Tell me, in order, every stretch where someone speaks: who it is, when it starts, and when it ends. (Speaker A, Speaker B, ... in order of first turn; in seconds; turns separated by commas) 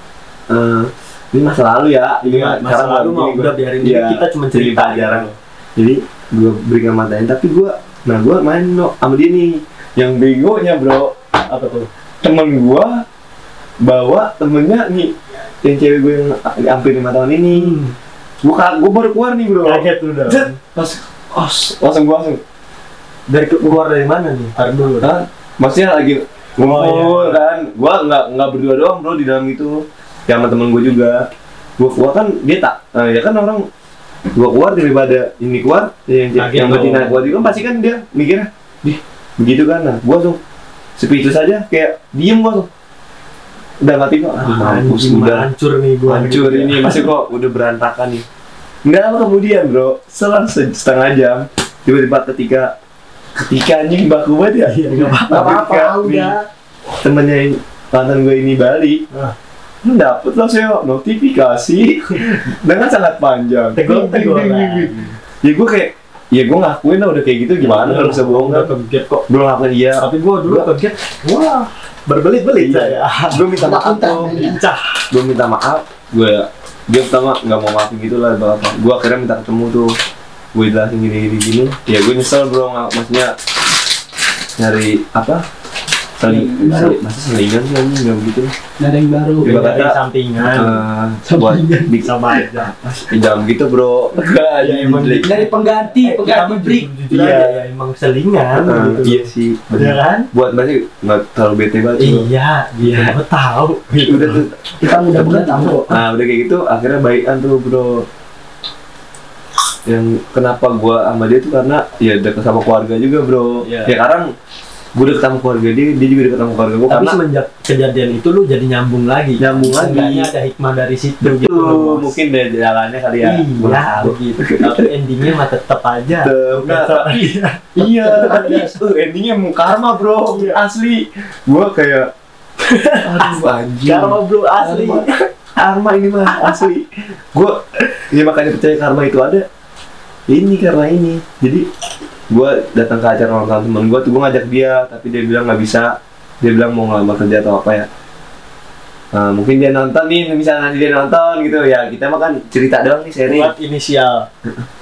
Speaker A: 0.5-11.2, Speaker B: 2.2-5.3, Speaker B: 11.4-11.9, Speaker A: 12.2-13.0, Speaker A: 13.8-17.8, Speaker B: 17.5-17.9, Speaker A: 18.4-22.4, Speaker B: 19.6-20.5, Speaker B: 23.3-25.1, Speaker A: 25.0-33.7, Speaker B: 26.6-27.4, Speaker A: 34.3-40.4, Speaker B: 36.4-37.6, Speaker A: 41.0-42.7, Speaker A: 43.8-45.5, Speaker B: 44.4-47.1, Speaker A: 46.0-48.2, Speaker A: 48.8-52.8, Speaker A: 53.4-56.4, Speaker B: 54.6-56.1, Speaker C: 55.3-56.4, Speaker A: 57.0-59.0, Speaker A: 59.8-68.7, Speaker B: 63.7-65.2, Speaker B: 67.6-69.2, Speaker A: 69.3-70.7, Speaker B: 70.0-73.5, Speaker A: 72.5-74.4, Speaker C: 73.5-74.6, Speaker B: 74.3-75.0, Speaker A: 75.1-79.9, Speaker A: 80.5-83.3, Speaker A: 84.6-85.4, Speaker A: 86.2-88.5, Speaker C: 86.2-87.0, Speaker C: 88.8-89.5, Speaker A: 89.4-95.4, Speaker B: 89.4-90.8, Speaker C: 91.2-92.0, Speaker B: 92.0-92.7, Speaker B: 94.6-100.3, Speaker C: 95.2-97.0, Speaker A: 97.1-97.6, Speaker A: 98.6-102.3, Speaker B: 102.0-104.4, Speaker A: 102.8-103.1, Speaker A: 104.0-108.0, Speaker C: 104.8-106.0, Speaker A: 109.8-114.3, Speaker B: 113.6-113.9, Speaker A: 115.0-117.2, Speaker B: 116.9-122.2, Speaker A: 119.4-120.3, Speaker A: 121.2-124.9, Speaker B: 123.2-128.8, Speaker A: 126.1-132.1, Speaker B: 130.3-130.6, Speaker B: 132.6-135.1, Speaker A: 133.0-135.1, Speaker A: 135.6-139.4, Speaker A: 140.3-141.7, Speaker A: 142.3-147.9, Speaker A: 149.1-153.5, Speaker B: 153.3-154.3